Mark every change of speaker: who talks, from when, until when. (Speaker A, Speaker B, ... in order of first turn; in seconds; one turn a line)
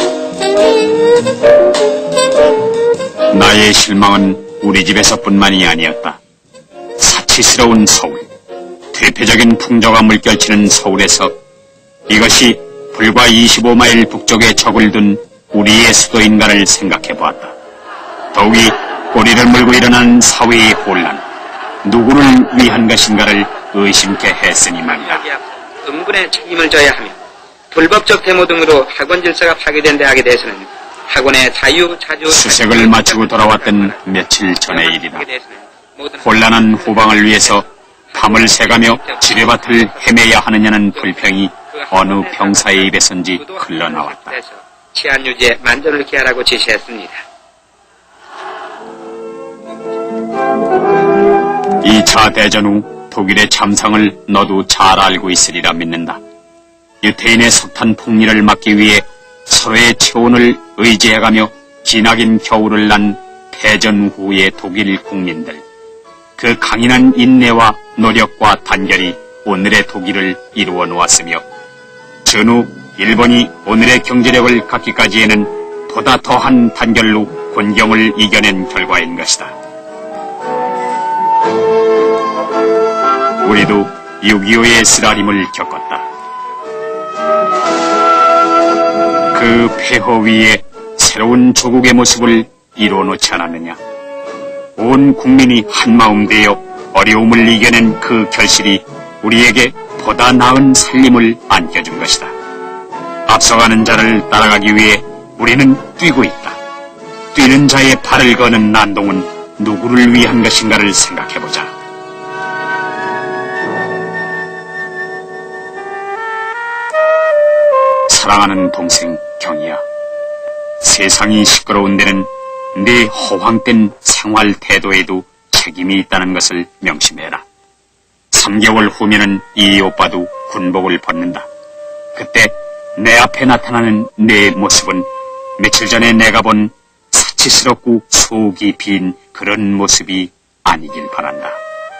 Speaker A: 3.3-6.2
Speaker A: 7.0-8.3
Speaker A: 8.9-11.3
Speaker A: 12.1-17.5
Speaker A: 18.3-21.2
Speaker A: 21.8-25.2
Speaker B: 25.1-27.1
Speaker B: 27.7-34.0
Speaker A: 32.3-35.2
Speaker B: 34.8-35.4
Speaker B: 36.0-36.2
Speaker A: 36.2-44.4
Speaker B: 36.9-37.5
Speaker B: 38.2-40.1
Speaker B: 41.8-44.3
Speaker B: 44.9-47.2
Speaker A: 51.8-56.2
Speaker A: 57.0-65.6
Speaker A: 66.4-71.4
Speaker A: 72.2-79.5
Speaker A: 83.4-86.1
Speaker A: 89.3-93.8
Speaker A: 94.8-102.3
Speaker A: 103.3-106.6
Speaker A: 107.3-111.7
Speaker A: 118.1-119.8
Speaker A: 120.8-127.4
Speaker A: 128.3-131.5
Speaker A: 132.2-135.1
Speaker A: 135.6-141.6